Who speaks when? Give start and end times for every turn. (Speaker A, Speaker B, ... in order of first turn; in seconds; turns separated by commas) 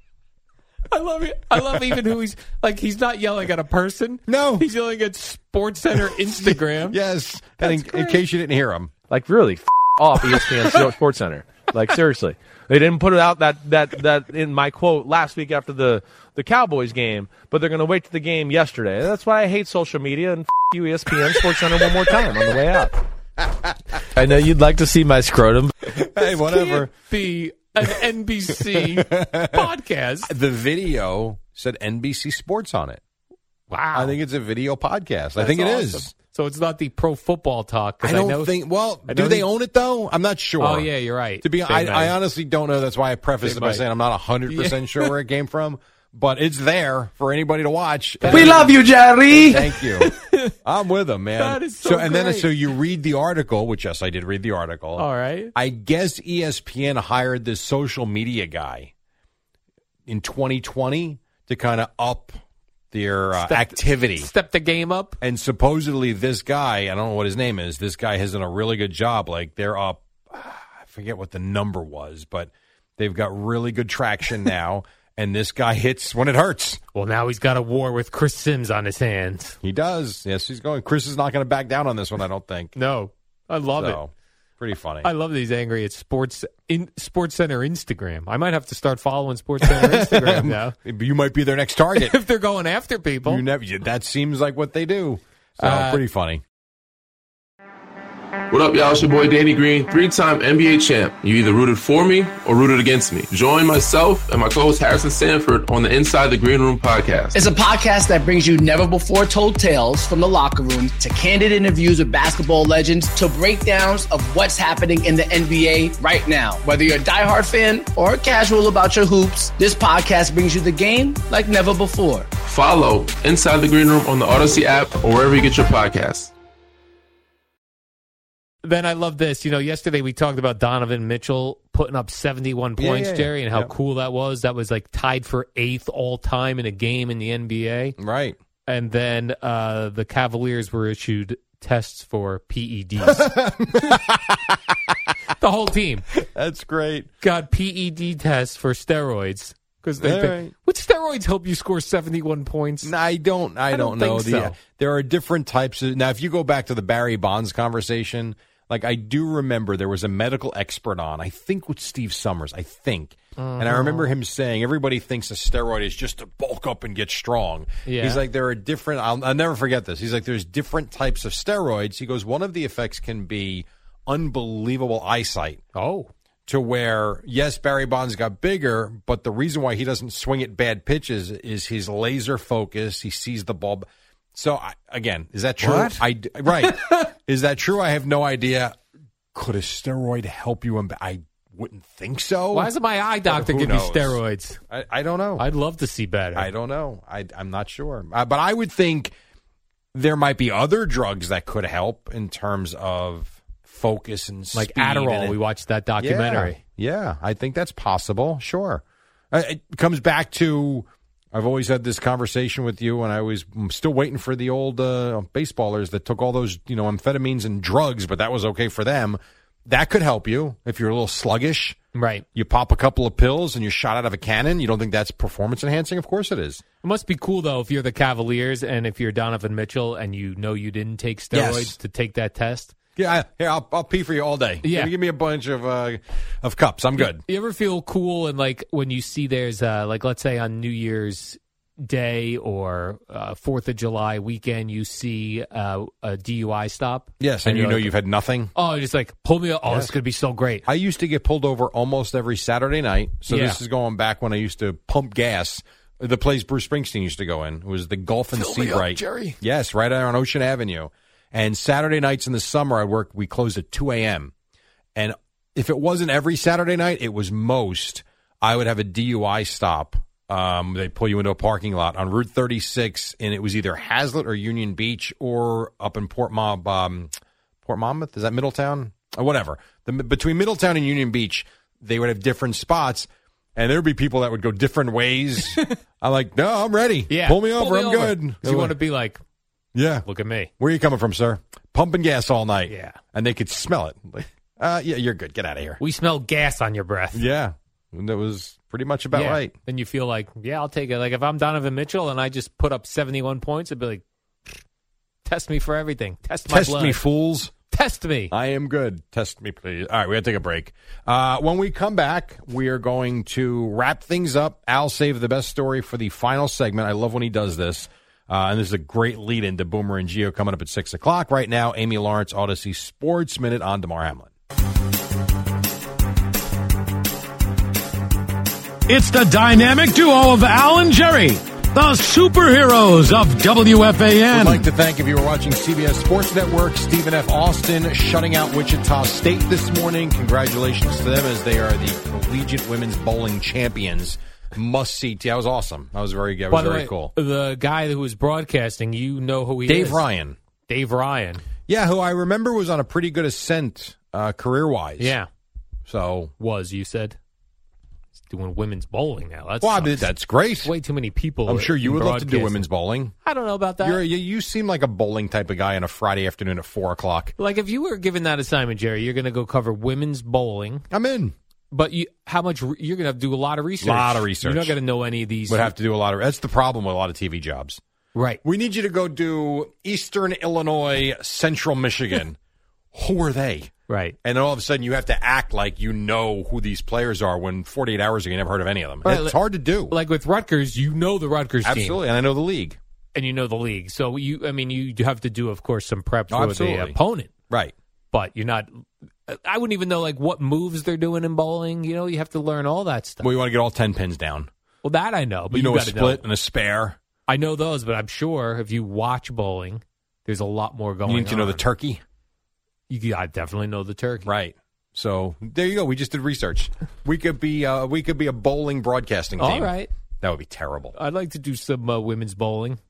Speaker A: 0.9-7.0, Speaker B: 4.3-4.7, Speaker B: 6.1-8.9, Speaker A: 7.6-8.2, Speaker C: 9.1-22.9, Speaker C: 24.1-25.8, Speaker B: 26.0-26.9, Speaker A: 26.2-30.3, Speaker B: 28.5-29.7, Speaker B: 30.3-33.0, Speaker A: 33.7-34.2, Speaker B: 34.0-36.1, Speaker A: 35.4-39.5, Speaker B: 38.0-40.9, Speaker A: 40.6-42.1, Speaker B: 41.4-48.7, Speaker A: 43.4-43.8, Speaker A: 44.5-45.1, Speaker A: 48.2-48.7, Speaker D: 48.3-49.6, Speaker B: 49.3-50.1, Speaker A: 50.0-50.5, Speaker B: 50.6-58.9, Speaker A: 51.4-52.5, Speaker A: 55.0-55.5, Speaker B: 60.1-62.4, Speaker B: 62.9-64.3, Speaker A: 63.4-65.2, Speaker B: 65.2-76.8, Speaker A: 77.0-79.6, Speaker B: 79.6-82.7, Speaker A: 82.8-84.0, Speaker B: 83.8-85.1, Speaker A: 85.0-90.8, Speaker B: 89.6-92.2, Speaker A: 92.0-93.4, Speaker B: 93.2-96.4, Speaker A: 95.6-96.0, Speaker E: 98.5-107.4, Speaker D: 107.3-122.3, Speaker E: 122.5-126.3, Speaker A: 128.6-138.0, Speaker B: 132.8-133.7, Speaker B: 138.0-138.4, Speaker A: 138.7-143.2, Speaker B: 143.0-144.3, Speaker A: 145.4-146.1, Speaker B: 146.2-147.1, Speaker A: 147.2-152.9, Speaker B: 150.0-150.5, Speaker B: 152.8-175.6, Speaker A: 153.7-154.6, Speaker A: 163.4-164.1, Speaker A: 167.9-168.2, Speaker A: 175.8-176.1, Speaker B: 176.5-188.8, Speaker A: 185.6-186.0, Speaker B: 189.3-192.7, Speaker A: 192.5-194.6, Speaker B: 193.3-195.4, Speaker A: 195.4-196.5, Speaker B: 196.3-199.1, Speaker B: 199.9-205.4, Speaker A: 204.5-206.6, Speaker B: 206.0-221.8, Speaker A: 221.9-222.3, Speaker B: 222.3-226.6, Speaker A: 226.8-232.7, Speaker B: 231.3-231.8, Speaker B: 233.0-237.2, Speaker A: 234.6-234.9, Speaker A: 237.0-247.9, Speaker B: 247.2-248.5, Speaker A: 248.6-250.7, Speaker B: 249.7-249.9, Speaker B: 250.7-264.3, Speaker A: 253.3-253.6, Speaker B: 264.9-277.1, Speaker B: 277.6-288.8, Speaker A: 287.1-289.2, Speaker B: 289.8-290.1, Speaker A: 290.1-290.5, Speaker B: 290.6-295.8, Speaker A: 292.7-293.0, Speaker A: 295.8-297.2, Speaker B: 297.1-299.6, Speaker A: 299.1-304.0, Speaker A: 305.2-307.0, Speaker B: 306.5-307.5, Speaker A: 307.7-308.3, Speaker B: 308.3-324.3, Speaker F: 328.9-334.7, Speaker B: 334.3-347.1, Speaker A: 346.5-350.0, Speaker B: 349.7-350.4, Speaker A: 350.7-351.4, Speaker B: 351.7-355.2, Speaker A: 355.0-355.3, Speaker B: 355.9-356.3, Speaker A: 356.4-357.2, Speaker A: 358.3-360.1, Speaker B: 359.6-360.7, Speaker A: 360.6-362.7, Speaker B: 361.5-363.1, Speaker A: 363.2-364.0, Speaker B: 363.8-367.3, Speaker A: 367.4-370.9, Speaker B: 370.9-371.3, Speaker A: 371.7-375.7, Speaker B: 373.8-374.8, Speaker B: 375.5-377.8, Speaker A: 378.1-378.4, Speaker B: 378.4-382.4, Speaker B: 382.9-383.7, Speaker A: 383.9-384.2, Speaker B: 384.2-390.0, Speaker A: 389.0-389.4, Speaker A: 389.9-392.0, Speaker B: 391.6-392.8, Speaker A: 393.1-397.3, Speaker B: 396.3-397.0, Speaker A: 398.1-403.3, Speaker B: 403.2-404.5, Speaker A: 404.8-406.2, Speaker B: 405.5-407.0, Speaker A: 407.3-411.6, Speaker B: 411.1-412.0, Speaker A: 412.9-414.3, Speaker B: 414.2-420.9, Speaker A: 419.4-419.9, Speaker A: 420.9-422.8